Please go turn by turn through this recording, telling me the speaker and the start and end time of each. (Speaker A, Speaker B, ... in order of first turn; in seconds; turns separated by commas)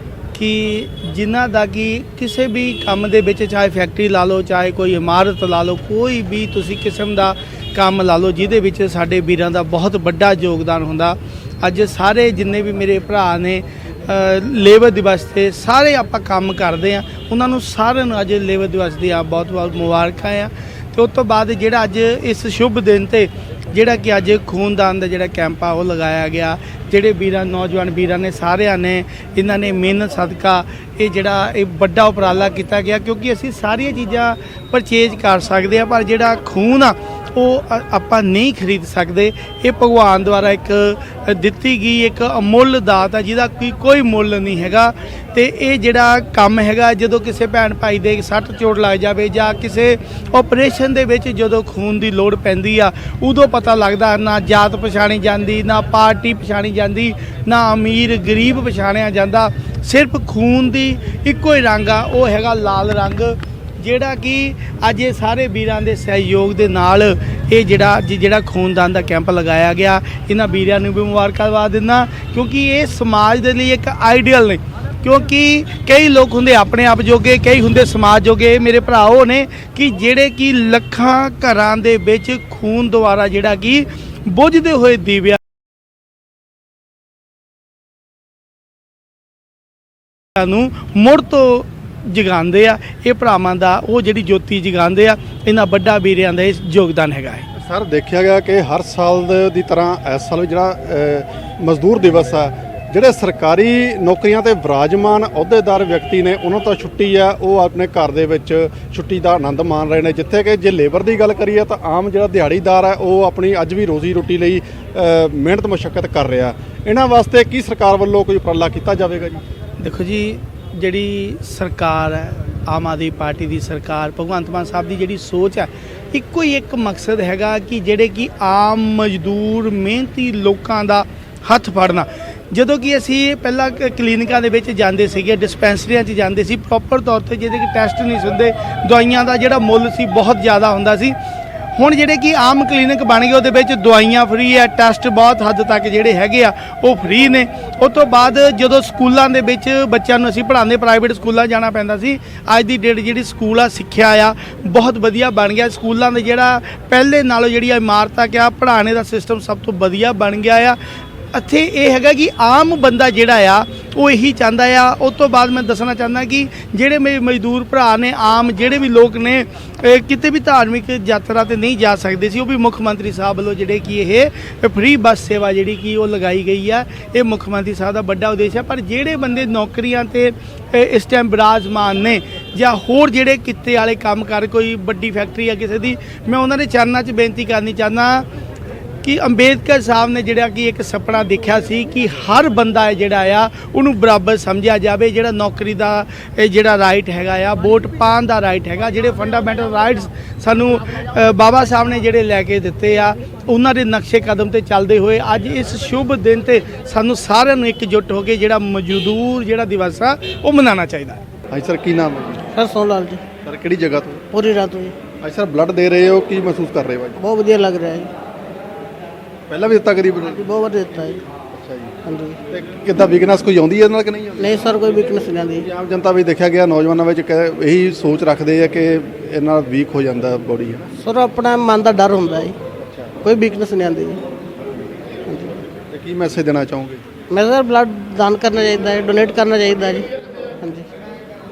Speaker A: 0.3-85.4, Speaker A: 90.4-97.5, Speaker B: 97.6-119.4, Speaker A: 119.8-141.2, Speaker A: 141.8-160.8, Speaker A: 161.3-188.3, Speaker A: 189.0-211.2, Speaker B: 211.5-212.4, Speaker C: 212.5-213.2, Speaker B: 213.4-214.2, Speaker C: 214.3-215.0, Speaker B: 215.2-217.2, Speaker C: 217.2-218.1, Speaker B: 219.5-220.4, Speaker C: 220.3-221.2, Speaker B: 221.5-222.0, Speaker C: 222.1-222.4, Speaker B: 222.5-224.6, Speaker C: 224.4-225.7, Speaker B: 225.6-230.9, Speaker C: 231.0-232.6, Speaker B: 232.8-233.1, Speaker C: 233.2-234.2, Speaker C: 235.3-235.5, Speaker B: 235.9-237.0, Speaker C: 237.3-240.1, Speaker C: 240.6-240.9